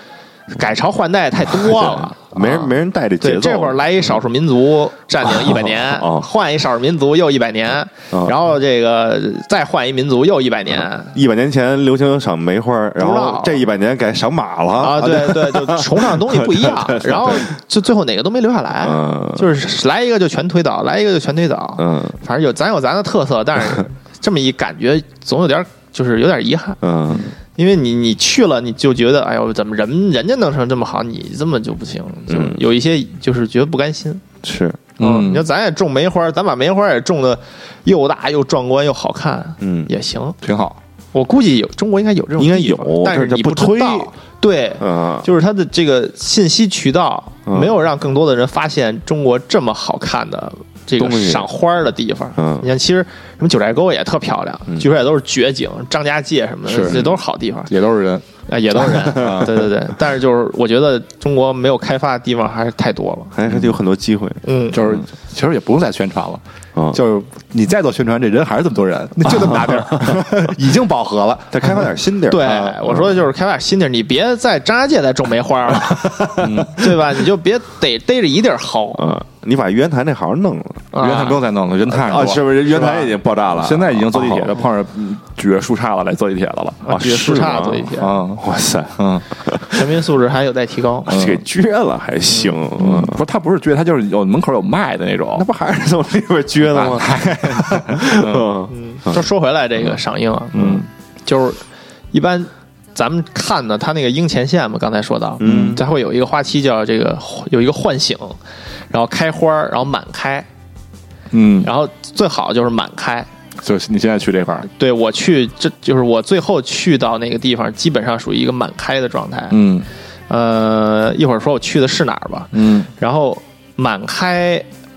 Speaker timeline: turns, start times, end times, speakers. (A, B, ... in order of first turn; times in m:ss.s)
0:00.5-0:11.1 A
0:01.5-0:03.8 B
0:05.3-0:06.3 B
0:11.1-0:17.5 B
0:13.0-0:13.6 A
0:14.8-0:26.8 A
0:18.8-0:19.5 B
0:21.8-0:22.2 B
0:26.8-0:27.3 B
0:27.6-0:34.2 A
0:32.3-0:32.6 B
0:34.4-0:34.9 B
0:35.0-0:35.5 C
0:35.0-0:40.4 A
0:39.6-0:39.9 B
0:40.4-0:40.8 C
0:41.1-0:57.7 A
0:42.4-0:44.1 B
0:44.8-0:45.3 B
0:47.5-0:47.8 B
0:51.0-0:51.5 B
0:52.4-0:52.7 B
0:56.7-0:57.0 C
0:56.8-0:57.2 B
0:57.7-0:58.2 C
0:58.5-1:03.3 A
0:59.0-0:59.6 B
0:59.2-0:59.6 C
1:03.3-1:04.4 B
1:04.4-1:04.8 A
1:04.7-1:11.9 C
1:06.8-1:07.0 B
1:09.2-1:10.3 B
1:11.5-1:12.5 B
1:12.3-1:19.1 A
1:12.4-1:13.0 C
1:15.9-1:16.7 B
1:16.4-1:16.8 C
1:19.0-1:20.9 B
1:20.9-1:21.4 A
1:21.0-1:26.9 C
1:21.9-1:24.6 B
1:26.8-1:28.2 A
1:26.9-1:29.8 B
1:28.0-1:28.4 C
1:29.0-1:29.2 C
1:29.7-1:31.2 A
1:31.1-1:33.2 B
1:31.1-1:31.4 C
1:32.8-1:35.5 C
1:35.4-1:39.2 B
1:36.7-1:38.5 C
1:38.7-1:41.6 A
1:40.5-1:40.9 C
1:42.1-1:48.4 A
1:45.4-1:45.8 B
1:45.4-1:45.8 C
1:48.9-1:50.5 A
1:51.3-1:51.7 C
1:51.6-1:53.3 A
1:53.6-1:54.7 C
1:54.7-1:59.6 A
1:59.5-1:59.9 C
2:00.3-2:04.7 A
2:02.5-2:02.9 C